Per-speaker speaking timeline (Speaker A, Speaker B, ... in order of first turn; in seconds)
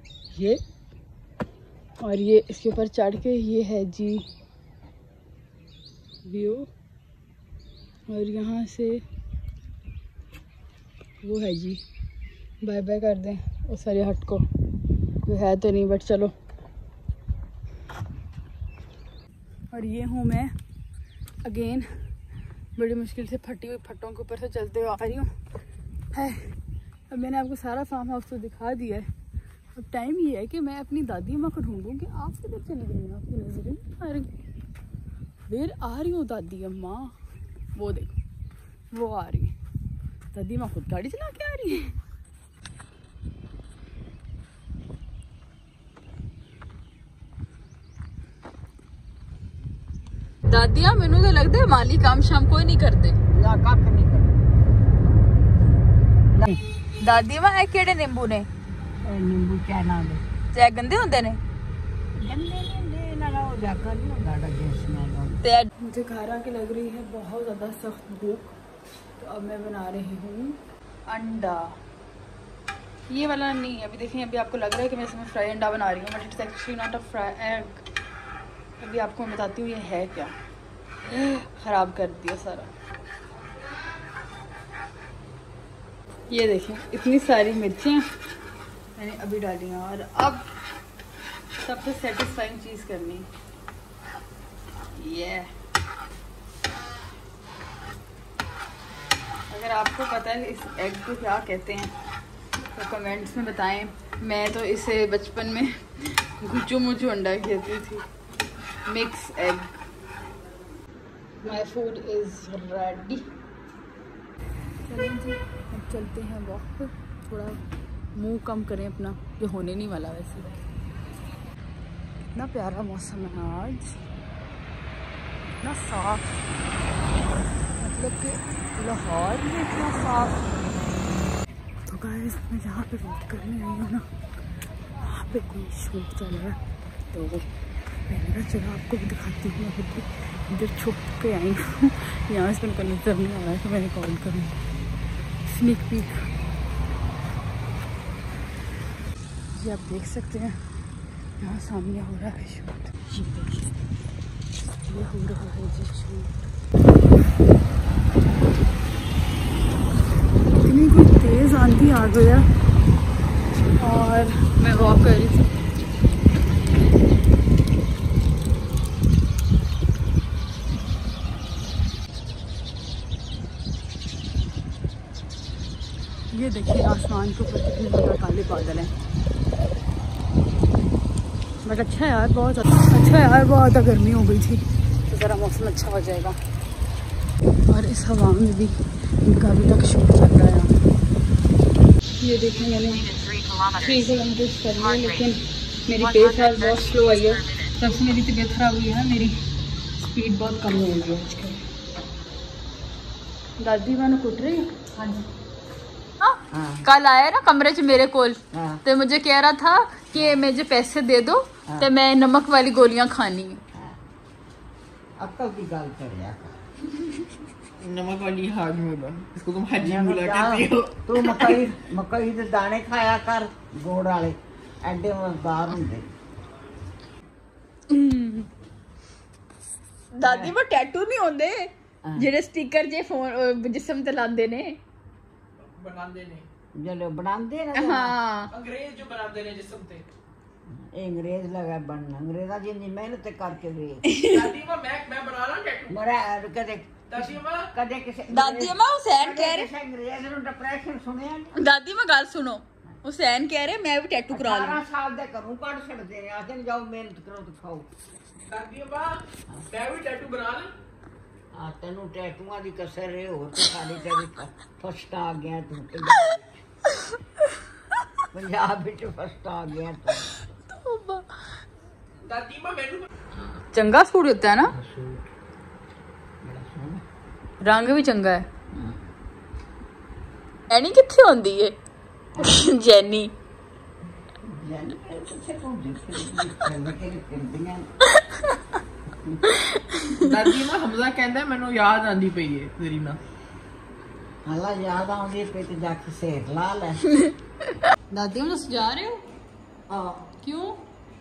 Speaker A: 0.3-0.6, 2.0-4.3, 6.2-6.7, 8.1-9.0, 11.2-11.8, 12.6-14.4, 15.2-16.3, 19.7-20.5, 21.4-22.1, 22.8-25.3, 26.1-26.6, 27.1-29.1, 29.8-34.3, 35.5-37.1, 37.8-38.2, 38.9-39.5, 40.3-42.0, 50.5-53.2, 57.0-58.5, 60.5-61.4, 65.4-68.5, 69.2-71.8, 73.1-77.8, 78.8-80.3, 81.1-82.7, 86.3-88.0, 89.0-90.5, 91.6-93.3, 94.9-95.5, 99.5-101.9, 102.7-108.0, 108.9-109.8, 111.4-113.3, 114.8-117.6, 118.1-120.6, 122.3-124.0, 125.6-126.3, 127.7-130.4, 131.8-134.1, 135.0-136.6, 137.1-137.5, 138.1-144.6, 145.4-146.3, 149.5-150.6, 151.4-153.7, 154.8-156.3, 160.6-162.5, 163.8-165.5, 176.3-178.9, 181.6-186.3, 187.7-190.8, 192.2-199.3, 200.0-201.6, 203.6-205.2, 206.2-213.6, 227.9-228.5, 230.2-234.8, 237.8-238.5, 244.1-244.5, 248.3-249.7, 251.6-254.8, 270.7-271.3, 273.7-274.8, 277.6-278.4, 280.7-281.8, 282.4-283.3, 289.5-290.2, 298.1-299.2, 300.4-300.8
Speaker B: 53.3-54.3, 59.0-60.2, 62.2-65.4, 206.5-206.9, 208.5-208.8, 210.1-210.4, 215.2-216.5, 219.8-226.1, 230.2-230.6, 232.0-232.3, 236.8-238.2, 240.8-244.1, 245.9-251.6, 254.3-257.9, 261.5-266.4, 268.3-270.3, 274.8-275.2, 276.4-277.0, 282.4-282.6, 284.4-287.9, 294.4-297.0, 299.9-300.3
Speaker C: 217.8-221.1, 235.6-236.5, 238.5-240.1, 244.2-245.9, 247.1-247.7, 258.5-260.7, 272.2-273.1, 290.1-293.2